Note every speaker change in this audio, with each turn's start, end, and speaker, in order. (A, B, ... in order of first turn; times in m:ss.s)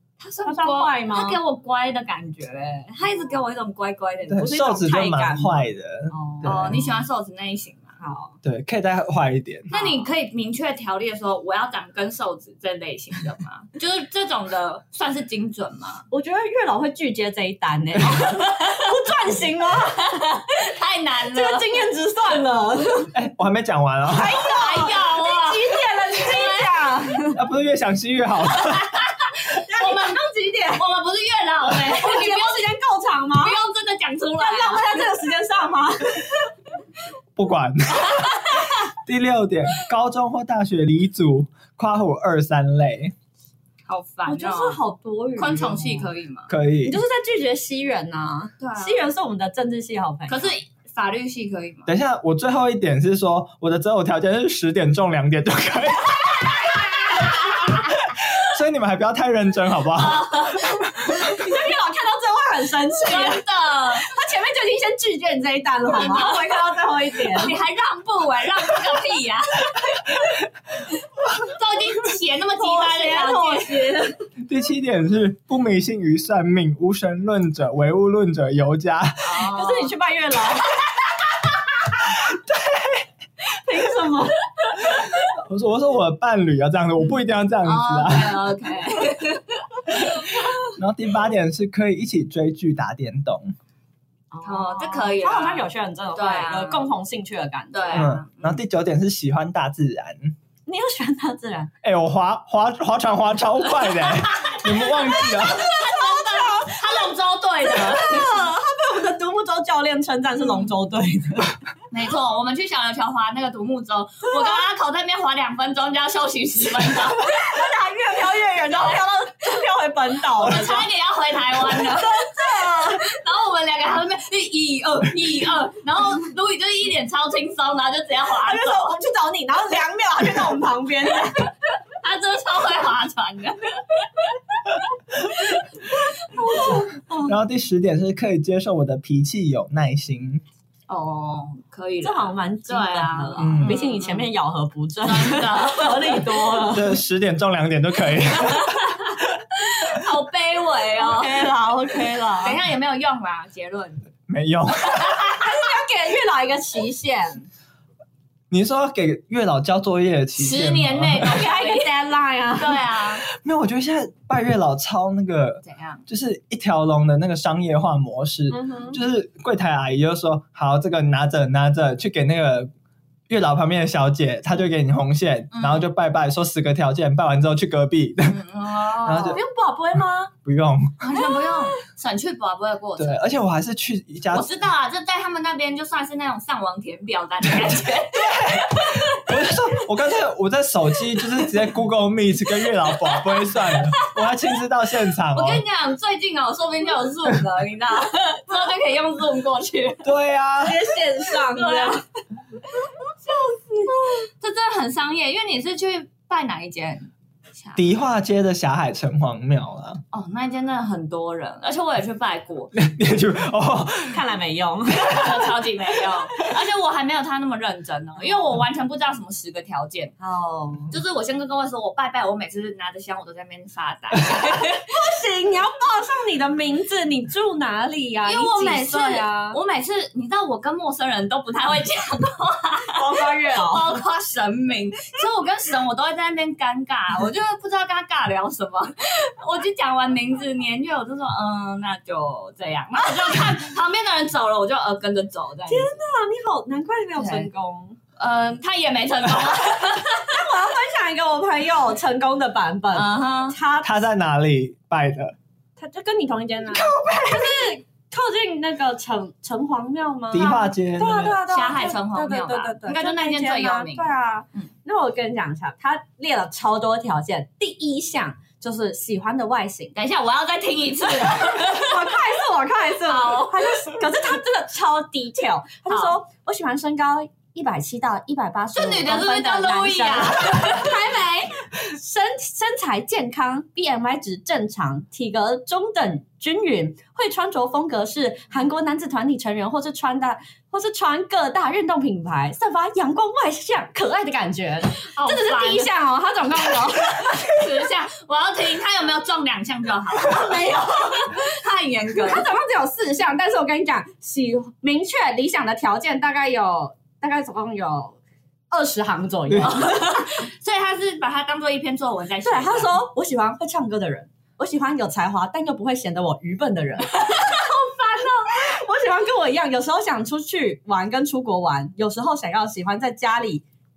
0:00.2-0:04.5 A
0:00.4-0:01.4 B
0:04.3-0:06.9 C
0:04.4-0:06.8 B
0:06.4-0:07.9 A
0:08.0-0:08.3 B
0:08.4-0:09.7 C
0:09.7-0:16.0 A
0:16.1-0:20.2 B
0:18.2-0:18.9 A
0:20.0-0:21.8 A
0:21.3-0:23.1 B
0:23.1-0:24.4 C
0:24.1-0:27.4 B
0:24.3-0:26.7 A
0:27.3-0:29.0 C
0:28.7-0:32.7 A
0:29.6-0:30.8 B
0:31.8-0:33.6 B
0:33.4-0:35.0 A
0:34.4-0:36.5 B
0:37.4-0:43.1 C
0:38.2-0:38.7 A
0:43.9-0:44.8 A
0:44.2-0:46.1 B
0:45.4-0:46.5 A
0:46.5-0:47.0 C
0:46.8-0:50.5 B
0:48.6-0:49.0 A
0:50.3-0:51.9 A
0:51.9-1:00.8 C
1:00.0-1:01.5 A
1:01.1-1:03.4 B
1:03.0-1:04.1 A
1:03.9-1:07.5 B
1:05.9-1:06.4 A
1:07.3-1:10.0 A
1:11.3-1:13.8 A
1:12.6-1:14.2 B
1:14.4-1:19.4 C
1:19.2-1:19.9 A
1:19.4-1:20.8 B
1:22.3-1:23.0 C
1:23.5-1:24.4 B
1:25.3-1:28.5 C
1:27.6-1:30.4 A
1:30.7-1:33.5 C
1:34.3-1:38.1 B
1:34.4-1:36.9 A
1:37.7-1:38.6 A
1:37.9-1:40.3 C
1:40.6-1:41.7 B
1:41.8-1:45.7 C
1:44.2-1:48.4 A
1:45.8-1:46.8 B
1:47.6-1:51.6 B
1:51.9-1:57.4 A
1:57.2-2:00.9 B
2:00.4-2:09.0 A
2:01.6-2:03.0 B
2:08.3-2:11.5 B
2:12.0-2:16.8 A
2:16.3-2:17.4 B
2:17.2-2:20.4 C
2:20.9-2:24.3 A
2:22.0-2:27.0 B
2:23.4-2:23.8 C
2:25.0-2:26.7 A
2:26.7-2:28.9 C
2:28.5-2:31.4 A
2:31.0-2:32.6 B
2:32.4-2:34.0 A
2:34.3-2:35.2 C
2:34.8-2:35.4 A
2:35.3-2:37.5 B
2:38.5-2:41.3 C
2:40.4-2:41.9 A
2:41.2-2:42.8 B
2:42.6-2:43.2 A
2:43.3-2:52.7 C
2:45.6-2:46.0 A
2:48.5-2:49.0 B
2:53.3-2:58.4 C
2:55.5-2:55.8 A
2:58.2-2:59.4 A
2:59.0-2:59.4 C
2:59.3-3:00.3 B
3:00.4-3:01.1 C
3:01.0-3:03.2 A
3:01.2-3:01.7 B
3:03.0-3:04.5 C
3:04.3-3:09.3 A
3:08.1-3:15.6 C
3:12.9-3:14.2 A
3:15.3-3:20.1 A
3:20.0-3:20.8 C
3:20.6-3:22.0 B
3:21.5-3:22.0 A
3:23.2-3:27.8 A
3:27.8-3:30.0 C
3:30.1-3:32.7 A
3:32.7-3:34.2 C
3:34.1-3:35.3 B
3:35.0-3:40.1 A
3:40.2-3:40.9 B
3:40.9-3:44.9 A
3:44.8-3:49.6 B
3:48.2-4:05.9 A
3:52.9-3:54.0 B
4:05.7-4:08.0 B
4:07.2-4:07.5 A
4:08.2-4:10.4 A
4:10.2-4:13.9 B
4:12.9-4:13.6 A
4:13.8-4:15.4 C
4:15.8-4:29.9 B
4:16.7-4:17.8 C
4:20.3-4:21.4 C
4:21.4-4:24.6 A
4:29.9-4:32.2 A
4:31.2-4:57.4 B
4:33.0-4:34.0 A
4:35.9-4:36.2 A
4:38.7-4:41.1 A
4:55.0-4:55.9 A
4:57.0-5:02.4 A
5:00.3-5:01.3 B
5:02.2-5:08.2 B
5:08.7-5:10.2 B
5:09.5-5:09.8 C
5:09.6-5:13.0 A
5:12.4-5:17.6 B
5:17.1-5:18.7 A
5:18.5-5:23.6 B